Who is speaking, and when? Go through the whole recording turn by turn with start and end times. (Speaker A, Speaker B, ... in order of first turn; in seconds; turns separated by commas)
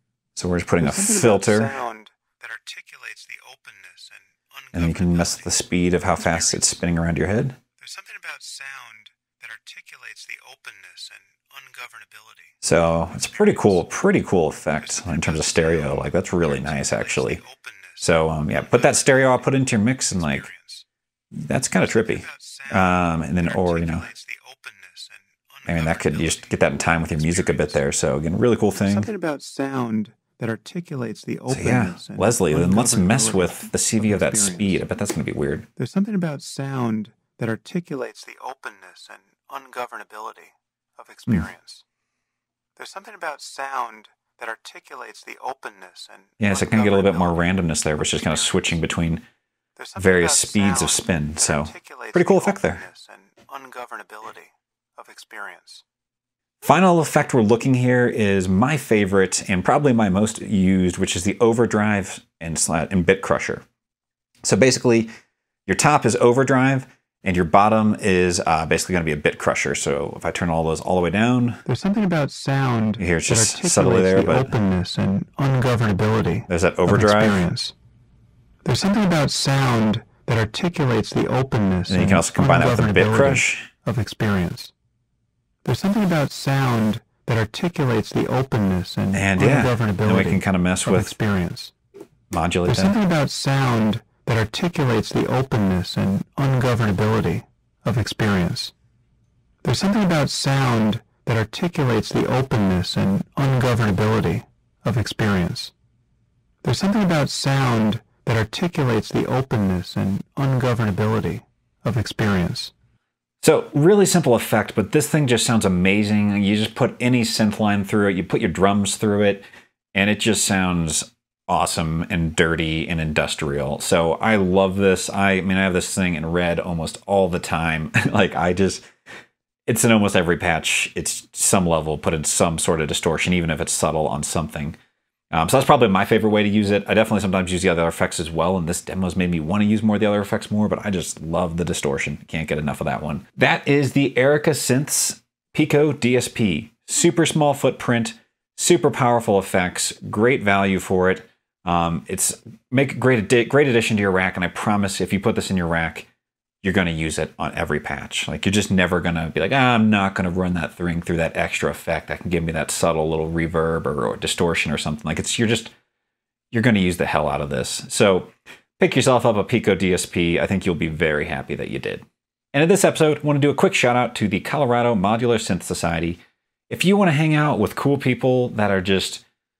Speaker A: 0.3-1.7, Speaker B: 0.8-5.5, Speaker A: 4.7-7.6, Speaker B: 6.2-6.6, Speaker B: 7.8-12.5, Speaker A: 12.6-17.4, Speaker B: 13.1-13.8, Speaker B: 14.8-18.0, Speaker A: 18.0-20.5, Speaker B: 18.6-19.4, Speaker B: 20.2-20.9, Speaker A: 21.3-24.1, Speaker B: 21.9-27.8, Speaker A: 25.6-29.1, Speaker B: 28.8-34.8, Speaker A: 31.5-35.7, Speaker B: 35.8-41.8, Speaker B: 42.8-48.8, Speaker A: 46.4-49.2, Speaker B: 49.8-55.8, Speaker A: 50.0-52.8, Speaker A: 56.6-63.6, Speaker A: 64.4-65.1, Speaker A: 65.7-71.6, Speaker B: 71.7-77.7, Speaker A: 73.0-74.5, Speaker A: 76.5-77.5, Speaker B: 78.6-84.7, Speaker A: 81.9-83.7, Speaker B: 85.6-91.7, Speaker A: 89.1-91.1, Speaker A: 92.3-92.9, Speaker B: 92.7-98.7, Speaker B: 99.6-105.7, Speaker B: 106.6-112.7, Speaker A: 113.4-128.8, Speaker A: 129.7-134.8, Speaker A: 135.3-156.1, Speaker A: 156.6-165.7, Speaker A: 166.5-179.2